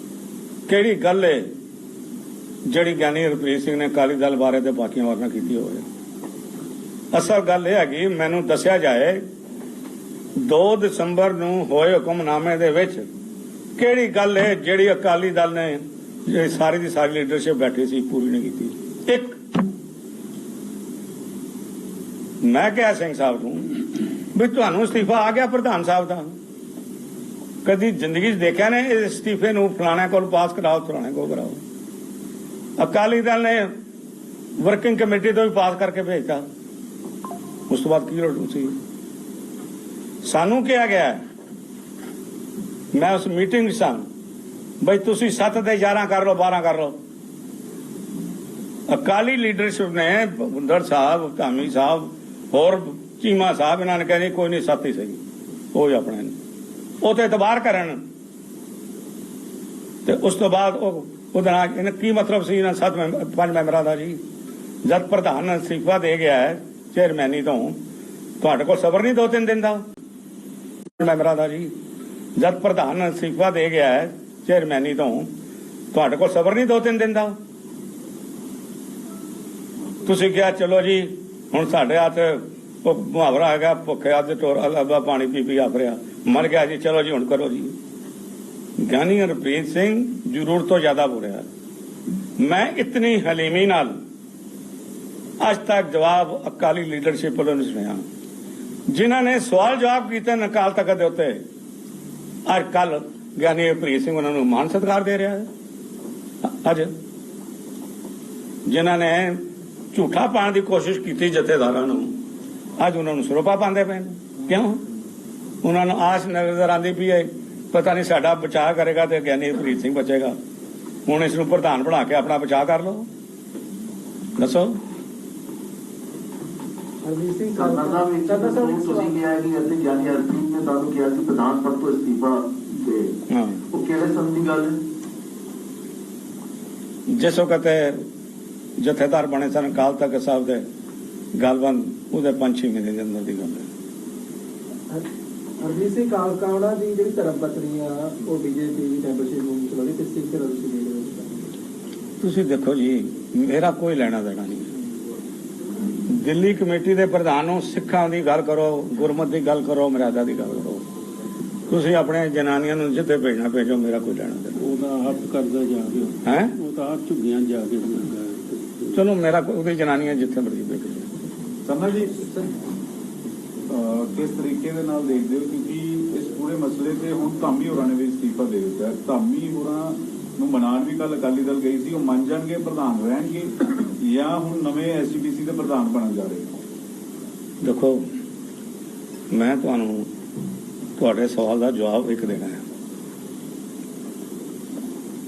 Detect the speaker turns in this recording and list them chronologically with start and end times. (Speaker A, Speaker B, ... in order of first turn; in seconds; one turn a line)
Speaker A: 0.7-1.4
Speaker A: 2.7-5.8
Speaker A: 7.1-9.2
Speaker A: 10.4-13.1
Speaker A: 13.8-19.4
Speaker A: 22.4-23.7
Speaker A: 24.3-26.3
Speaker A: 27.6-31.6
Speaker A: 32.8-33.7
Speaker A: 34.6-36.4
Speaker A: 37.7-38.7
Speaker A: 40.2-41.2
Speaker A: 42.9-44.0
Speaker A: 44.8-47.0
Speaker A: 48.9-55.2
Speaker A: 55.7-56.3
Speaker A: 57.0-58.0
Speaker A: 60.0-64.2
Speaker A: 64.8-67.8
Speaker A: 68.4-69.8
Speaker A: 71.0-71.7
Speaker A: 72.4-75.3
Speaker A: 75.9-77.3
Speaker A: 80.0-87.7
Speaker A: 88.8-91.5
Speaker A: 92.4-93.9
Speaker A: 95.4-98.0
Speaker A: 98.9-101.4
Speaker A: 102.5-105.5
Speaker A: 106.4-106.9
Speaker A: 108.7-109.4
Speaker A: 109.9-112.1
Speaker A: 112.8-114.8
Speaker A: 115.6-120.3
Speaker A: 121.1-123.0
Speaker A: 124.4-124.8
Speaker B: 127.0-129.2
Speaker C: 127.5-133.1
Speaker A: 133.3-133.6
Speaker C: 133.7-134.8
Speaker A: 137.1-138.0
Speaker A: 138.8-140.6
Speaker A: 141.3-143.7
Speaker B: 145.6-151.3
Speaker A: 152.2-154.7
Speaker A: 156.1-160.8
Speaker A: 161.7-164.6
Speaker D: 164.6-168.8
Speaker A: 166.2-166.5
Speaker A: 168.9-171.1
Speaker E: 171.7-172.5
Speaker E: 173.7-186.5
Speaker A: 187.6-188.0
Speaker A: 189.3-190.1
Speaker A: 191.0-192.6